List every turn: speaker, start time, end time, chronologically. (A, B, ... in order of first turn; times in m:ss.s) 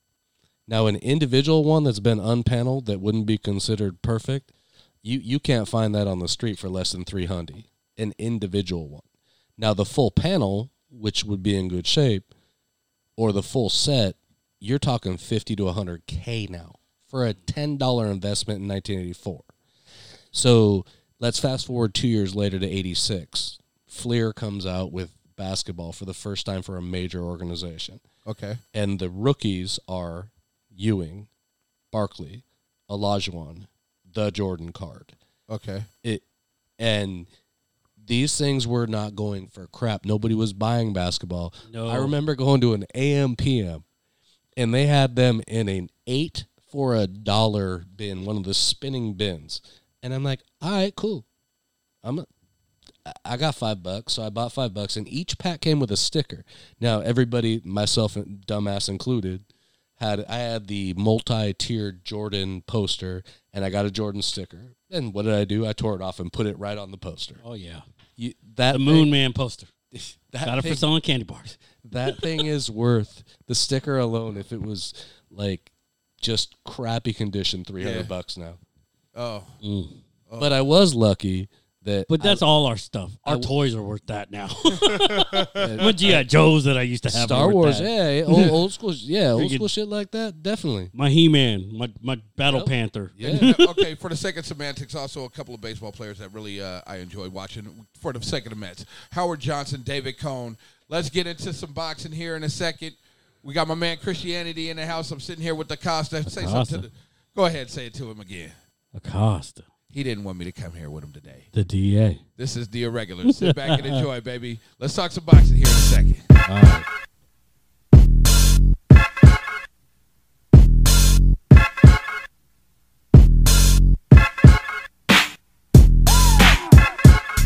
0:00.7-0:04.5 A
0:05.0-0:09.1 A
0:09.6-0:12.3 A
0:13.2-0:19.5 A
0:20.3-0:28.0 A
0:28.3-0:28.6 B
0:28.7-0:31.3 A
0:31.9-0:35.2 A
0:35.5-0:35.9 B
0:36.8-0:37.3 A
0:38.0-0:43.8 A
0:41.7-0:42.1 C
0:44.6-0:51.3 A
0:53.0-1:07.4 A
1:07.4-1:07.8 C
1:08.2-1:09.1 A
1:08.7-1:09.7 C
1:10.0-1:10.9 A
1:10.4-1:12.2 C
1:11.8-1:18.6 A
1:17.8-1:18.1 B
1:19.2-1:19.6 B
1:19.6-1:20.0 C
1:20.3-1:20.6 B
1:20.4-1:22.5 A
1:22.1-1:28.5 C
1:23.3-1:23.5 A
1:24.9-1:25.7 B
1:25.6-1:26.2 A
1:27.1-1:30.9 A
1:29.3-1:29.7 C
1:30.9-1:33.8 C
1:32.4-1:33.6 A
1:33.2-1:48.6 B
1:46.2-1:46.9 C
1:48.9-1:49.7 C
1:49.9-1:51.5 B
1:51.5-1:52.2 C
1:52.4-1:56.3 B
1:53.3-1:54.0 C
1:56.5-1:56.9 C